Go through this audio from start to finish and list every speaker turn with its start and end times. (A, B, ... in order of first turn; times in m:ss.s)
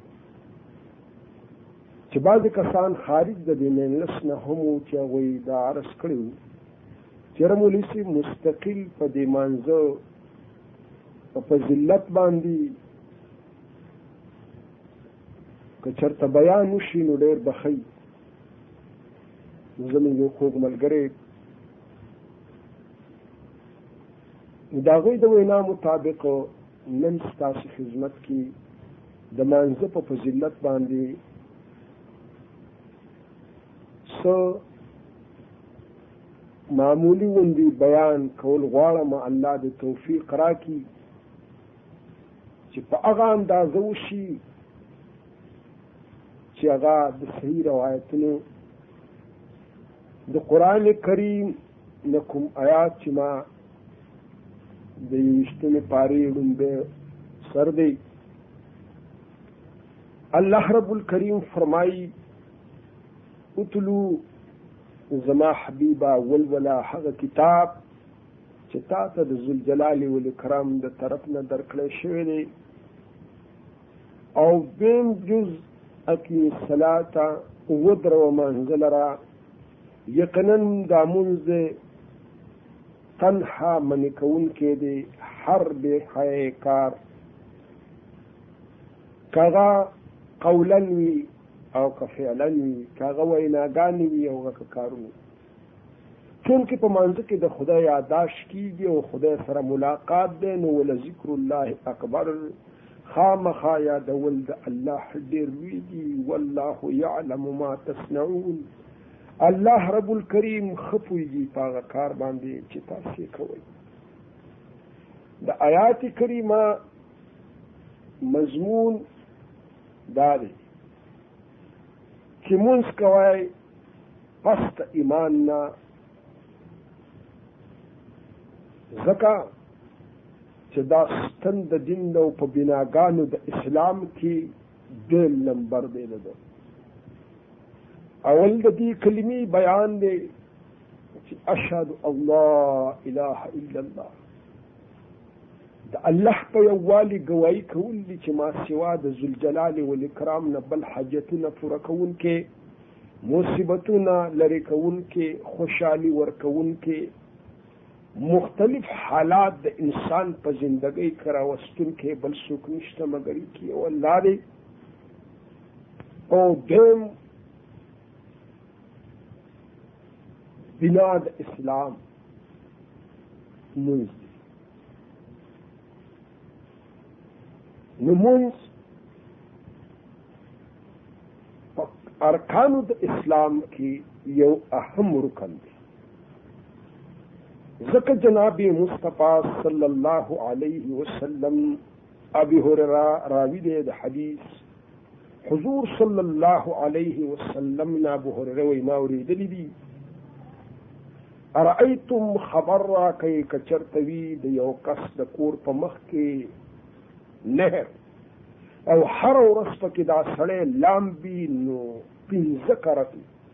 0:02.1-0:06.4 A
0:07.3-0:10.0 A
0:11.3-0:12.8 A
0:15.8-0:17.8 A
0:19.8-0:21.1 A
0:24.7-0:28.5 A
0:29.3-0:31.2 A
0:34.1-0:34.6 A
0:36.7-0:40.9 A
0:42.7-0:44.4 A
0:46.5-0:48.4 A
0:50.3-0:53.4 A
0:55.0-0:56.8 A
0:57.4-0:58.0 A
1:00.3-1:02.1 A
1:03.6-1:04.2 A
1:05.1-1:07.8 A
1:08.7-1:12.5 A
1:14.4-1:19.2 A
1:20.1-1:21.8 A
1:23.2-1:27.0 A
1:29.3-1:35.1 A
1:36.4-1:42.5 A
1:43.1-1:48.7 A
1:49.4-1:53.6 A
1:55.4-1:56.8 A
1:58.2-1:59.0 A
2:00.1-2:00.6 A
2:02.4-2:03.5 A
2:04.4-2:05.7 A
2:08.9-2:09.5 A
2:10.7-2:16.4 A
2:18.2-2:20.3 A
2:21.2-2:24.1 A
2:25.9-2:32.4 A
2:33.2-2:37.1 A
2:38.2-2:44.4 A
2:46.3-2:47.1 A
2:50.8-2:52.0 A
2:53.8-2:54.3 A
2:58.0-2:58.7 A
3:01.8-3:05.7 A
3:07.8-3:11.8 A
3:12.4-3:14.6 A
3:15.4-3:19.7 A
3:21.6-3:26.5 A
3:27.4-3:27.9 A
3:28.9-3:33.2 A